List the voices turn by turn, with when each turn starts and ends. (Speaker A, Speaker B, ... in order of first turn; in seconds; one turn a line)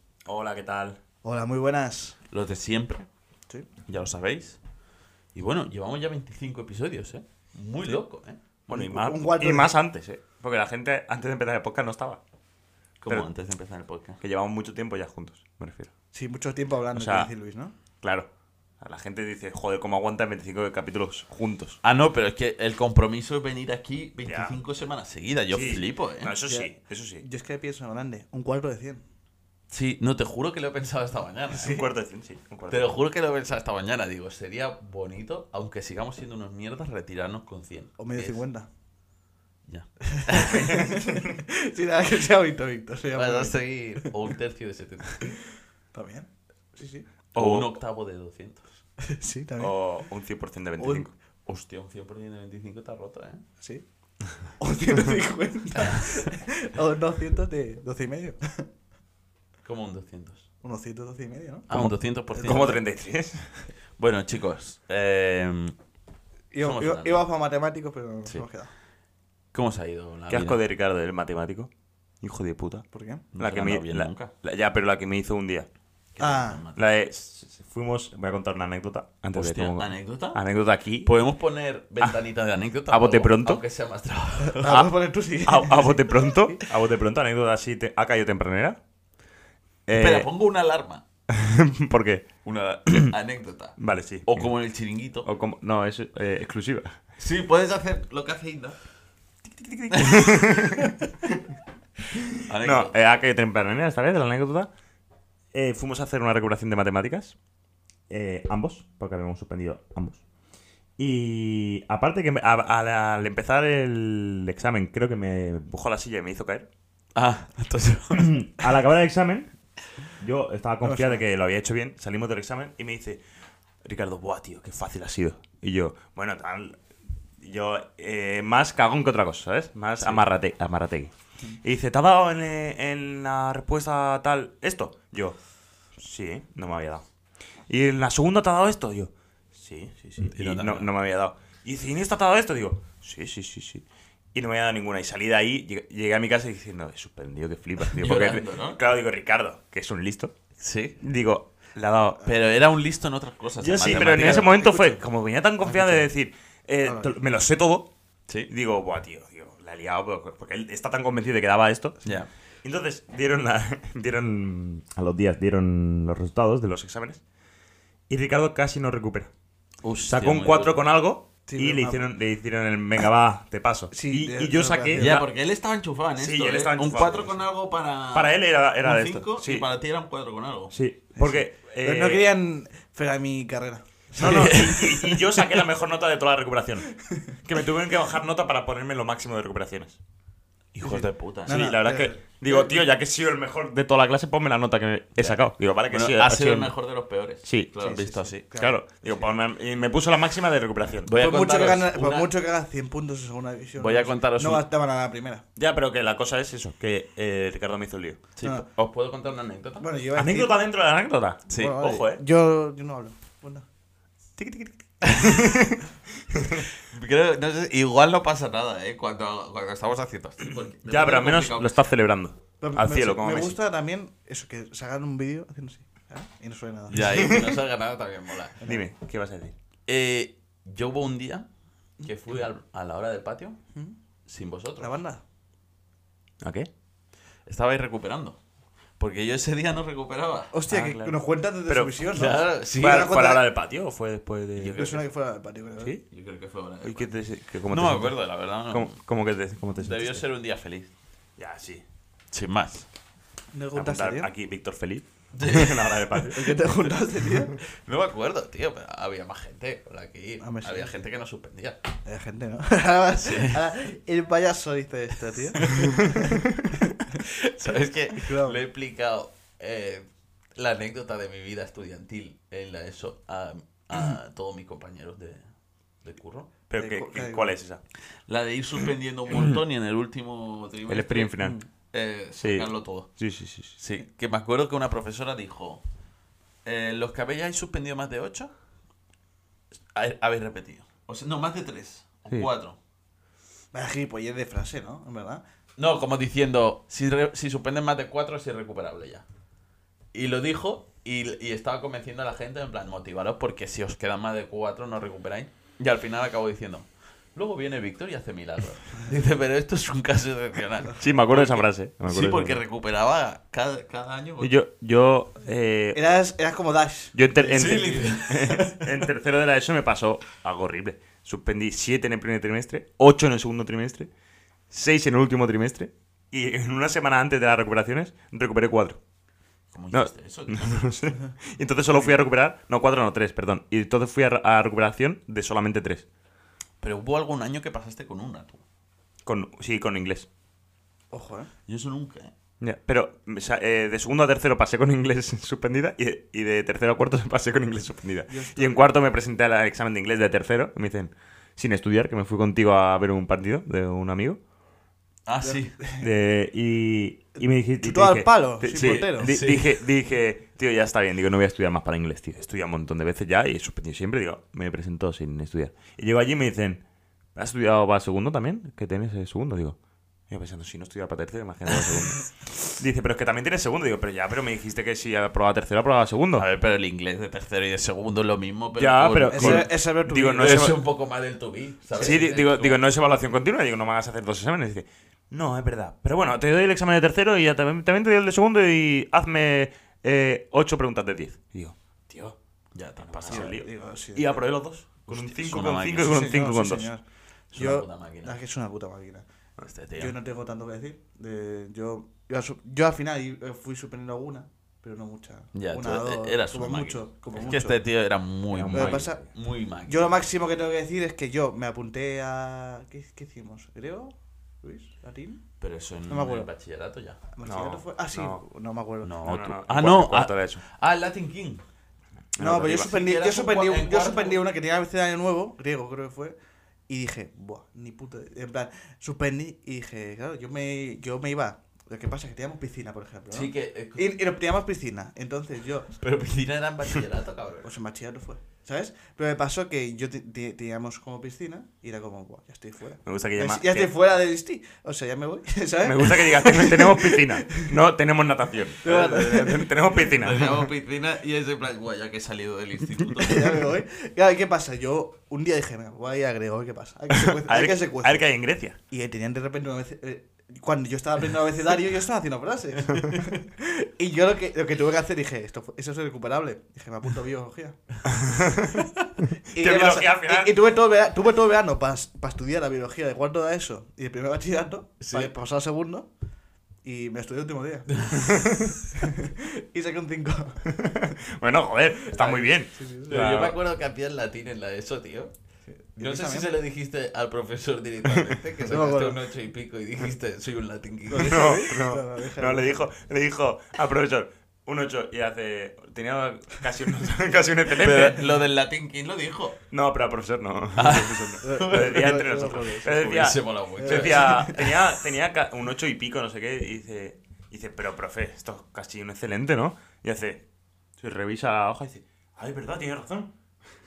Speaker A: 0.2-1.0
Speaker B: 1.2-2.2
Speaker C: 2.3-3.1
Speaker C: 3.9-4.6
Speaker C: 5.3-8.4
Speaker B: 8.7-9.7
Speaker A: 8.7-12.2
Speaker C: 13.0-14.2
Speaker A: 14.2-15.9
Speaker B: 16.1-17.7
Speaker A: 16.9-17.3
Speaker A: 18.0-18.3
Speaker A: 18.8-21.8
Speaker C: 21.8-26.3
Speaker A: 24.2-24.6
Speaker A: 25.5-27.2
Speaker B: 26.5-29.0
Speaker C: 29.7-31.8
Speaker A: 31.5-32.9
Speaker C: 32.7-38.4
Speaker B: 38.0-38.7
Speaker C: 39.7-40.8
Speaker B: 40.1-44.1
Speaker A: 40.4-41.4
Speaker C: 43.1-45.3
Speaker B: 45.9-47.1
Speaker A: 47.3-47.8
Speaker C: 47.3-48.8
Speaker B: 49.0-49.8
Speaker A: 49.6-51.1
Speaker B: 50.8-51.1
Speaker C: 51.5-53.4
Speaker B: 53.6-53.8
Speaker B: 54.5-58.7
Speaker C: 55.7-56.1
Speaker C: 59.6-60.5
Speaker B: 60.6-61.8
Speaker C: 61.7-62.8
Speaker A: 61.7-63.6
Speaker B: 62.3-62.8
Speaker C: 64.0-65.8
Speaker B: 66.5-68.7
Speaker C: 66.6-67.2
Speaker C: 69.5-70.6
Speaker A: 70.3-71.7
Speaker A: 72.2-72.8
Speaker B: 72.9-73.2
Speaker C: 73.3-74.3
Speaker A: 73.4-75.7
Speaker C: 76.2-76.8
Speaker B: 76.2-76.6
Speaker A: 76.8-81.1
Speaker C: 79.3-80.4
Speaker C: 81.0-84.6
Speaker A: 82.9-83.6
Speaker B: 84.5-86.6
Speaker A: 84.6-84.9
Speaker A: 85.4-88.8
Speaker A: 89.9-90.3
Speaker C: 89.9-91.0
Speaker A: 91.3-92.3
Speaker C: 92.4-95.3
Speaker A: 92.9-93.1
Speaker A: 93.8-94.5
Speaker A: 95.2-97.0
Speaker C: 97.2-98.8
Speaker A: 99.4-101.4
Speaker C: 99.9-100.9
Speaker A: 102.1-104.7
Speaker C: 102.4-102.9
Speaker A: 105.5-107.3
Speaker A: 108.1-110.2
Speaker A: 111.0-116.7
Speaker C: 117.1-118.4
Speaker A: 118.1-119.5
Speaker A: 120.2-123.2
Speaker B: 120.8-121.2
Speaker A: 123.8-126.8
Speaker A: 127.4-135.4
Speaker A: 135.9-137.0
Speaker A: 137.7-150.3
Speaker C: 140.3-140.9
Speaker C: 147.8-148.8
Speaker C: 150.6-151.0
Speaker A: 151.0-152.3
Speaker C: 152.2-154.6
Speaker A: 153.6-157.9
Speaker B: 153.8-155.0
Speaker B: 155.6-156.1
Speaker B: 156.8-157.1
Speaker A: 158.5-162.0
Speaker C: 162.0-162.3
Speaker A: 162.6-167.2
Speaker A: 168.1-169.3
Speaker C: 169.8-170.8
Speaker A: 170.1-175.2
Speaker B: 171.4-172.0
Speaker B: 173.9-175.2
Speaker C: 174.9-180.7
Speaker A: 176.2-177.4
Speaker A: 178.1-179.7
Speaker A: 180.7-182.3
Speaker B: 181.2-184.7
Speaker A: 184.2-190.0
Speaker C: 184.2-185.4
Speaker C: 190.8-191.7
Speaker A: 190.8-196.7
Speaker B: 191.4-192.8
Speaker C: 195.2-198.4
Speaker A: 197.4-197.7
Speaker B: 197.8-199.3
Speaker A: 198.5-201.1
Speaker C: 201.1-202.3
Speaker B: 201.1-205.4
Speaker C: 203.8-204.6
Speaker A: 205.6-208.2
Speaker C: 208.3-209.9
Speaker B: 209.8-210.5
Speaker A: 210.1-212.2
Speaker C: 211.5-211.8
Speaker B: 211.6-213.7
Speaker A: 214.4-216.7
Speaker C: 215.0-215.5
Speaker C: 216.8-221.7
Speaker A: 220.8-223.6
Speaker B: 222.6-227.3
Speaker C: 226.9-228.6
Speaker A: 227.0-227.3
Speaker A: 228.6-229.5
Speaker C: 229.8-231.5
Speaker C: 232.0-233.6
Speaker C: 234.2-235.0
Speaker B: 234.8-235.2
Speaker A: 236.4-236.7
Speaker C: 237.4-238.4
Speaker C: 239.0-240.5
Speaker B: 240.5-243.4
Speaker A: 240.7-242.1
Speaker C: 242.1-243.2
Speaker A: 242.8-245.0
Speaker C: 244.6-245.0
Speaker B: 244.8-245.9
Speaker C: 246.1-247.1
Speaker A: 246.8-250.2
Speaker C: 247.7-249.0
Speaker C: 249.7-250.9
Speaker A: 251.4-251.8
Speaker C: 252.3-252.9
Speaker B: 253.5-254.3
Speaker A: 253.7-256.9
Speaker C: 255.3-256.1
Speaker B: 256.2-257.6
Speaker C: 257.6-261.8
Speaker B: 260.4-260.9
Speaker B: 262.0-266.8
Speaker C: 263.2-263.6
Speaker C: 265.6-265.9
Speaker C: 267.2-275.5
Speaker B: 267.6-268.6
Speaker C: 276.0-276.5
Speaker A: 276.7-277.8
Speaker B: 276.8-277.4
Speaker C: 278.2-281.4
Speaker A: 280.9-281.6
Speaker C: 281.9-283.1
Speaker A: 282.4-283.8
Speaker C: 283.8-285.8
Speaker C: 286.6-288.5
Speaker C: 289.9-292.8
Speaker B: 293.7-295.4
Speaker C: 295.8-299.2
Speaker C: 300.1-314.5
Speaker A: 311.0-312.6
Speaker A: 314.4-316.0
Speaker B: 315.9-318.9
Speaker A: 317.1-324.1
Speaker C: 317.5-318.7
Speaker A: 324.7-329.0
Speaker C: 329.7-330.8
Speaker A: 329.9-336.0
Speaker C: 336.8-338.6
Speaker A: 339.2-340.3
Speaker B: 341.1-341.5
Speaker C: 341.7-342.3
Speaker A: 342.6-354.4
Speaker B: 348.3-348.9
Speaker C: 355.2-355.8
Speaker B: 355.4-356.1
Speaker A: 356.0-366.8
Speaker B: 357.8-359.3
Speaker C: 358.7-359.8
Speaker A: 367.3-369.8
Speaker A: 370.3-376.4
Speaker C: 376.4-379.7
Speaker A: 378.8-380.8
Speaker B: 379.3-380.6
Speaker C: 380.2-382.9
Speaker A: 381.9-392.4
Speaker C: 392.7-393.5
Speaker A: 393.0-396.9
Speaker B: 393.3-394.4
Speaker C: 395.1-396.3
Speaker B: 396.0-399.2
Speaker C: 397.5-398.4
Speaker C: 399.6-400.1
Speaker B: 400.0-407.8
Speaker C: 405.5-410.1
Speaker A: 408.5-409.2
Speaker B: 408.7-409.3
Speaker B: 409.9-415.4
Speaker C: 415.6-417.2
Speaker B: 416.1-416.5
Speaker B: 417.3-419.1
Speaker A: 417.4-418.4
Speaker C: 419.0-421.6
Speaker A: 419.2-420.6
Speaker A: 422.4-422.9
Speaker B: 422.4-426.3
Speaker C: 422.6-424.4
Speaker B: 426.9-436.0
Speaker C: 433.3-434.2
Speaker C: 436.0-437.7
Speaker B: 437.6-447.7
Speaker A: 443.0-443.9
Speaker A: 445.8-450.6
Speaker B: 448.8-449.6
Speaker C: 448.8-453.6
Speaker B: 453.1-458.2
Speaker A: 457.1-458.8
Speaker B: 458.9-468.1
Speaker C: 462.9-463.2
Speaker A: 468.1-468.7
Speaker B: 469.5-476.1
Speaker A: 469.5-470.5
Speaker C: 475.0-475.3
Speaker B: 476.8-480.7
Speaker A: 478.1-478.7
Speaker A: 480.6-483.6
Speaker B: 482.1-483.5
Speaker C: 483.1-485.3
Speaker B: 485.7-486.5
Speaker C: 486.0-491.7
Speaker B: 488.6-489.2
Speaker B: 491.1-492.8
Speaker A: 491.2-498.3
Speaker C: 497.8-499.6
Speaker A: 499.7-510.4
Speaker C: 500.7-502.2
Speaker B: 501.4-504.7
Speaker C: 503.0-504.5
Speaker A: 511.0-513.3